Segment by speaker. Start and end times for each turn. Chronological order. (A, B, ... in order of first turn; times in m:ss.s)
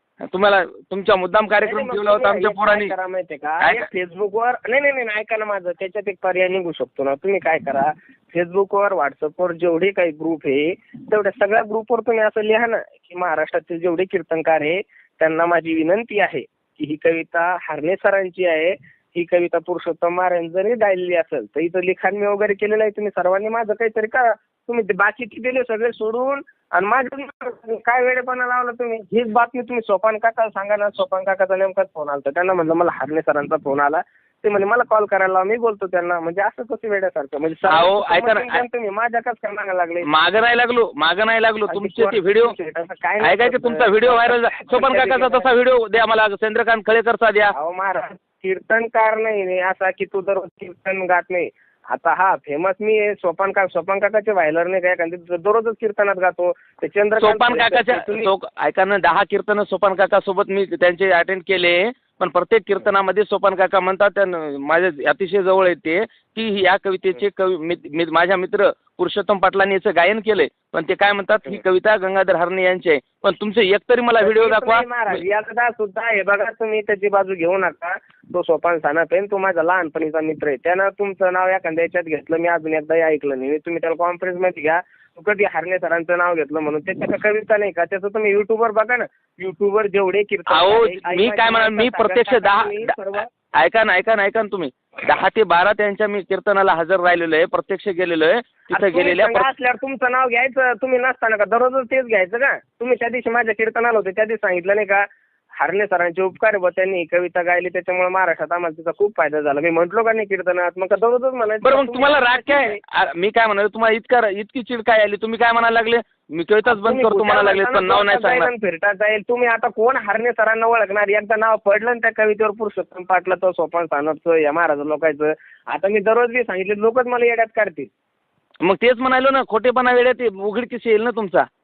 0:00.3-0:02.9 A
0:01.6-0:40.1 B
0:03.6-0:03.9 A
0:37.7-0:38.6 A
0:40.0-0:42.5 A
0:41.7-0:45.5 B
0:43.2-0:47.5 A
0:47.5-0:58.3 B
0:57.2-1:15.2 A
1:14.2-1:33.3 B
1:30.5-1:32.9 A
1:33.5-1:39.5 A
1:38.7-1:52.8 B
1:51.6-1:58.5 A
1:56.7-2:07.9 B
2:08.6-2:11.5 A